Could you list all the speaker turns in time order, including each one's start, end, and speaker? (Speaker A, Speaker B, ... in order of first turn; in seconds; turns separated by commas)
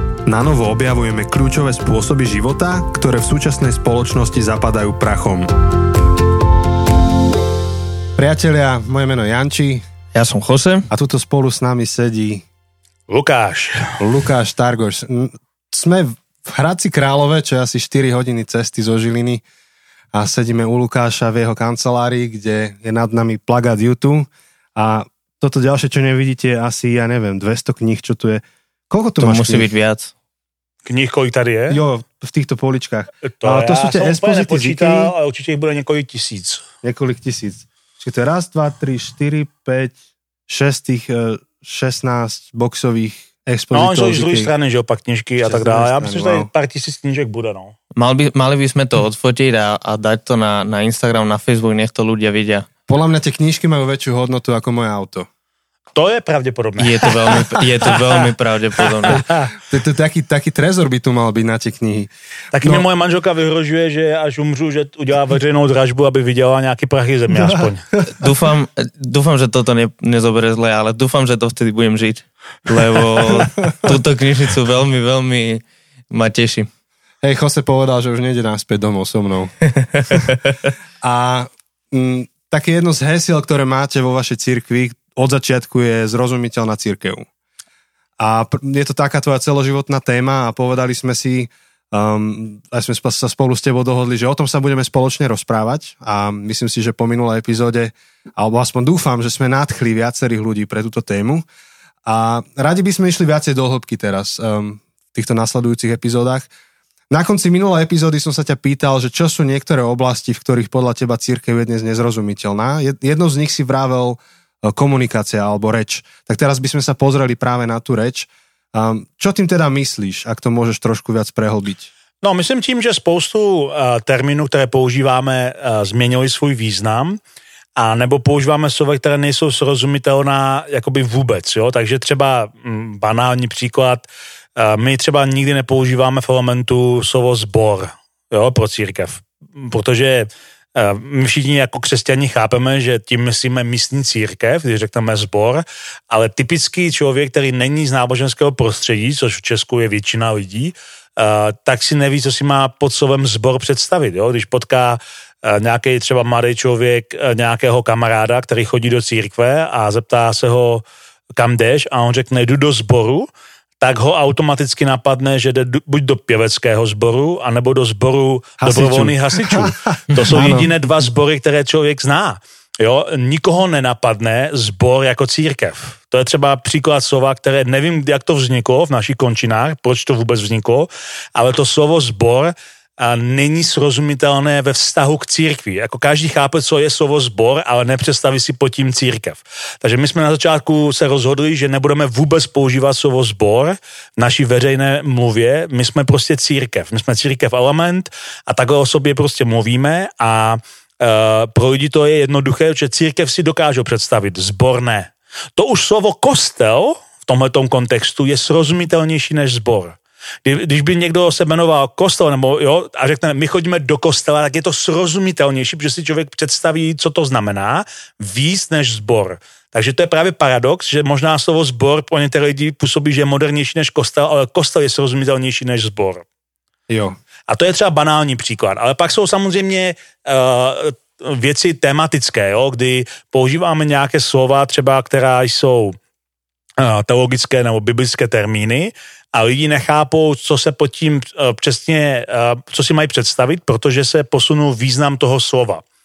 Speaker A: 0.2-5.5, Speaker A: 8.2-9.9, Speaker B: 10.1-10.9, Speaker A: 10.9-12.4, Speaker C: 13.1-14.0, Speaker A: 14.0-19.4, Speaker A: 20.1-29.7, Speaker B: 29.2-30.1, Speaker C: 30.8-31.8, Speaker A: 31.7-35.1, Speaker C: 33.4-36.6, Speaker A: 36.8-40.0, Speaker A: 40.5-44.5, Speaker C: 43.7-47.7, Speaker A: 45.4-46.5, Speaker B: 48.0-52.7, Speaker A: 52.9-55.3, Speaker C: 55.9-57.4, Speaker B: 56.8-59.2, Speaker C: 59.2-59.5, Speaker A: 59.2-62.9, Speaker C: 62.5-67.9, Speaker A: 67.3-67.7, Speaker B: 68.2-76.7, Speaker A: 73.3-73.9, Speaker A: 77.2-79.6, Speaker A: 81.0-87.3, Speaker A: 88.2-101.5, Speaker A: 102.0-106.5, Speaker A: 107.1-121.9, Speaker C: 122.2-127.2, Speaker C: 127.8-160.8, Speaker C: 161.3-163.3, Speaker C: 163.8-226.2, Speaker A: 168.6-170.7, Speaker A: 226.9-227.2, Speaker C: 227.5-236.0, Speaker C: 236.8-245.8